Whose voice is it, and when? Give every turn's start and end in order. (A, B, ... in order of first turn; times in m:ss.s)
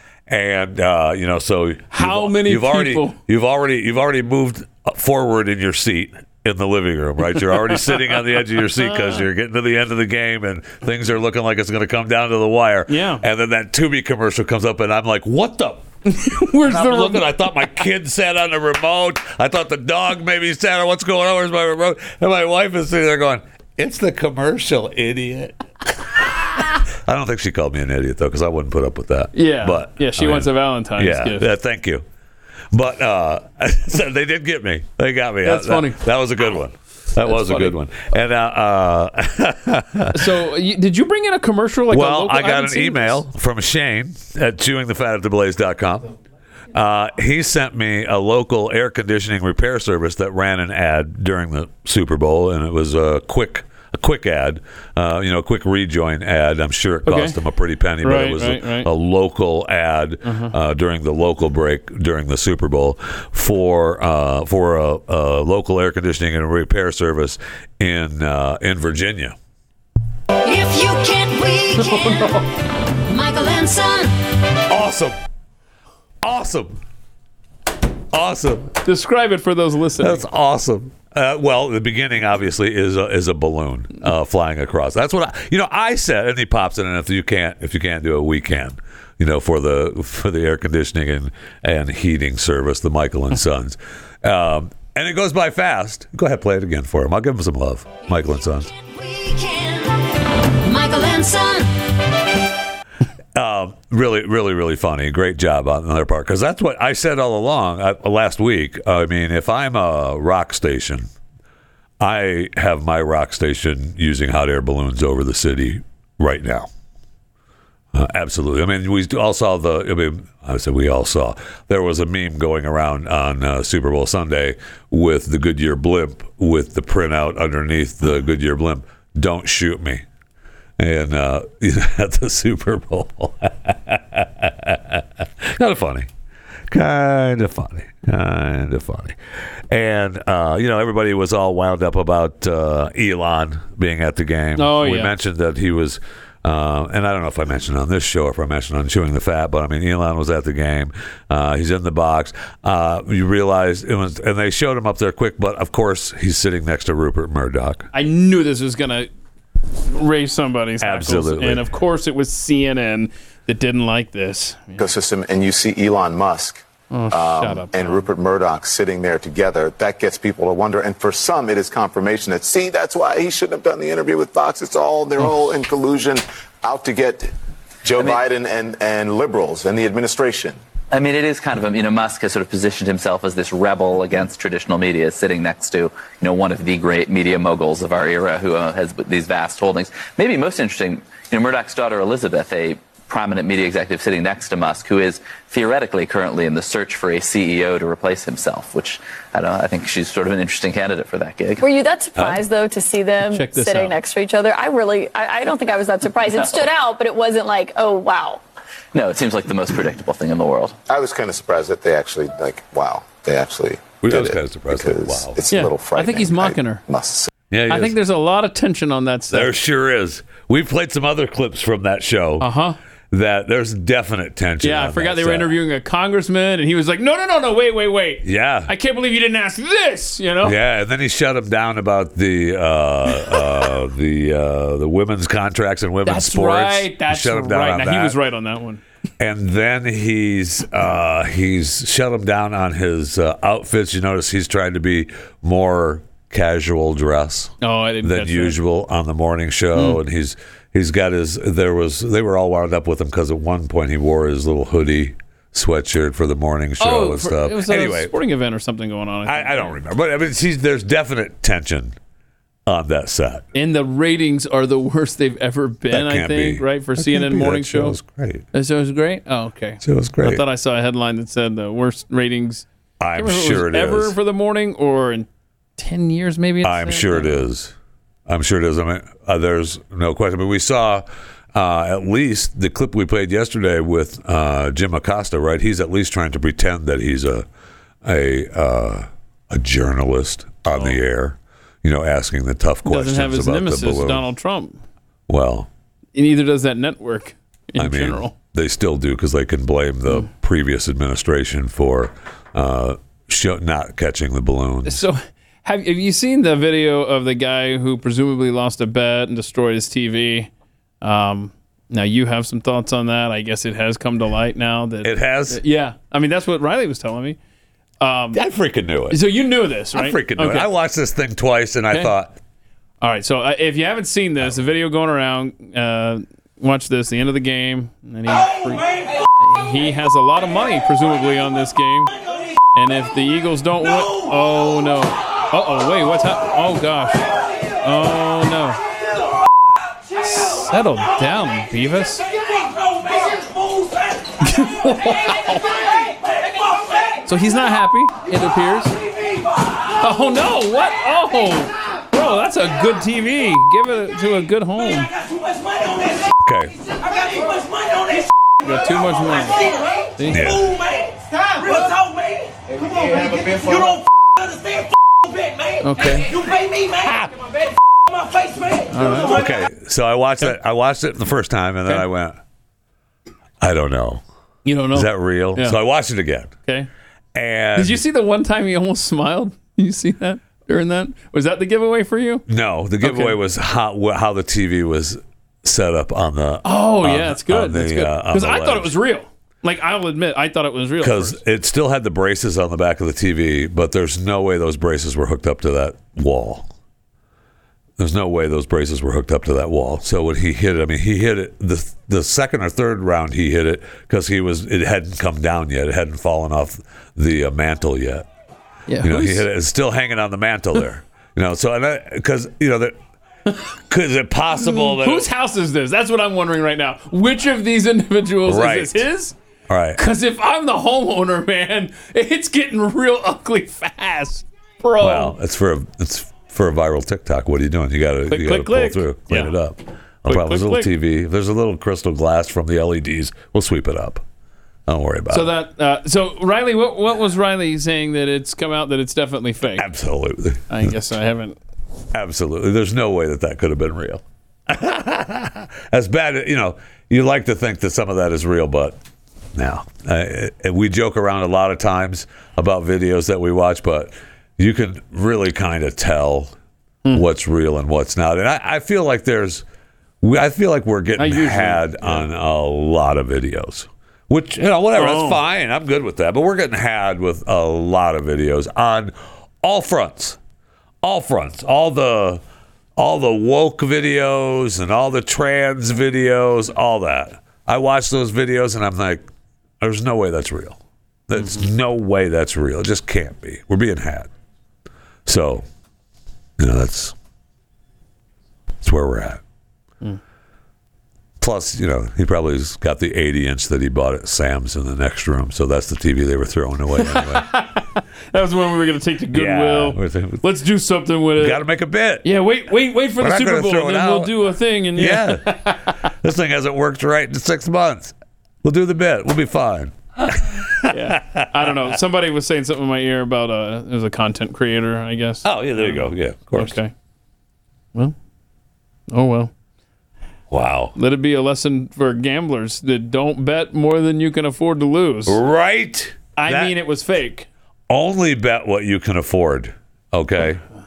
0:00.3-0:15.9 A
0:01.9-0:03.2 B
0:07.5-0:09.2 B
0:12.9-0:13.2 B
0:16.1-0:17.4 B
0:16.6-0:32.0 A
0:29.3-0:31.5 B
0:32.7-0:40.4 A
0:35.4-0:36.0 B
0:37.2-0:37.7 B
0:40.1-0:43.2 B
0:41.9-0:46.1 A
0:46.7-1:09.4 A
0:57.0-0:57.4 B
0:58.0-0:58.9 B
1:00.2-1:00.5 B
1:10.4-1:12.4 C
1:11.8-1:12.5 B
1:13.0-1:14.2 C
1:14.7-1:15.2 A
1:16.2-1:16.8 A
1:18.1-1:18.7 A
1:18.8-1:20.2 B
1:20.0-1:38.7 A
1:38.7-1:41.7 C
1:43.3-1:51.1 A
1:52.0-1:56.7 A
1:57.9-2:10.0 A
2:10.8-2:16.1 A
2:16.7-2:19.2 A
2:19.7-2:37.9 A
2:24.6-2:25.1 B
2:37.9-2:39.1 B
2:39.8-2:44.8 B
2:40.8-2:41.6 A
2:44.8-2:57.3 D
2:46.9-2:48.0 B
2:57.8-3:00.6 D
3:00.9-3:21.6 E
3:21.6-3:28.4 F
3:23.3-3:23.9 B
3:28.9-3:30.8 E
3:30.9-3:37.3 D
3:34.0-3:35.4 A
3:35.5-3:36.8 B
3:37.5-3:38.0 A
3:37.7-3:39.5 B
3:39.3-3:42.5 A
3:42.4-3:42.8 B
3:43.1-3:45.5 A
3:44.6-3:50.6 B
3:48.2-3:48.7 A
3:50.4-3:58.2 A
3:56.0-3:58.8 B
3:59.2-4:18.1 A
4:07.6-4:08.6 B
4:16.8-4:19.8 B
4:19.2-4:22.0 A
4:22.7-4:23.4 A
4:23.5-4:28.0 B
4:25.9-4:28.4 A
4:28.5-4:37.5 B
4:29.8-4:30.4 A
4:33.0-4:34.2 A
4:36.6-4:37.7 A
4:38.3-4:47.4 A
4:48.0-4:54.2 A
4:50.7-4:51.0 B
4:52.8-4:54.8 B
4:55.3-4:55.7 A
4:56.1-4:58.3 B
4:57.8-5:05.0 A
5:04.8-5:10.5 B
5:11.0-5:17.4 B
5:15.0-5:15.6 A
5:18.0-5:18.4 B
5:18.3-5:19.2 A
5:19.1-5:20.7 B
5:19.9-5:22.4 A
5:23.0-5:28.9 B
5:29.4-5:32.1 B
5:32.7-5:37.3 B
5:37.8-5:38.8 B
5:40.2-5:42.3 B
5:44.4-5:45.9 B
5:47.2-5:49.0 B
5:50.0-5:55.1 B
5:56.4-5:56.7 A
5:58.6-6:00.6 B
6:00.3-6:00.7 A
6:05.8-6:06.4 B
6:07.0-6:07.3 A
6:08.9-6:09.4 B
6:09.1-6:12.4 A
6:13.6-6:14.2 A
6:14.6-6:15.8 B
6:14.9-6:16.5 A
6:17.3-6:18.0 A
6:17.7-6:22.4 B
6:22.5-6:29.0 A
6:23.0-6:23.4 B
6:26.6-6:31.4 B
6:31.0-6:36.7 A
6:38.0-6:48.3 A
6:48.9-6:49.4 B
6:49.0-6:53.0 A
6:53.9-6:55.3 A
6:54.5-6:59.3 B
6:58.4-6:59.0 A
6:59.7-7:00.0 A
7:00.0-7:05.3 B
7:05.0-7:14.2 A
7:08.3-7:09.5 B
7:10.2-7:10.9 B
7:14.9-7:15.5 A
7:15.3-7:19.8 B
7:19.8-7:20.8 A
7:20.7-7:21.6 B
7:22.1-7:29.0 A
7:29.5-7:36.5 A
7:37.1-7:39.6 A
7:40.2-7:50.4 A
7:41.2-7:42.3 B
7:45.0-7:45.4 B
7:51.0-7:52.4 A
7:53.0-7:59.2 A
7:59.8-8:04.3 A
8:05.2-8:05.6 A
8:06.6-8:07.1 A
8:08.8-8:09.4 A
8:11.4-8:17.5 A
8:17.0-8:21.6 B
8:19.3-8:20.4 A
8:21.4-8:22.3 A
8:22.2-8:25.9 B
8:23.2-8:24.4 A
8:24.9-8:31.8 A
8:30.9-8:36.9 B
8:35.4-8:36.8 A
8:39.1-8:39.5 B
8:40.5-8:40.9 A
8:41.0-8:45.4 B
8:45.2-8:46.7 A
8:46.4-8:47.5 B
8:47.9-8:50.6 A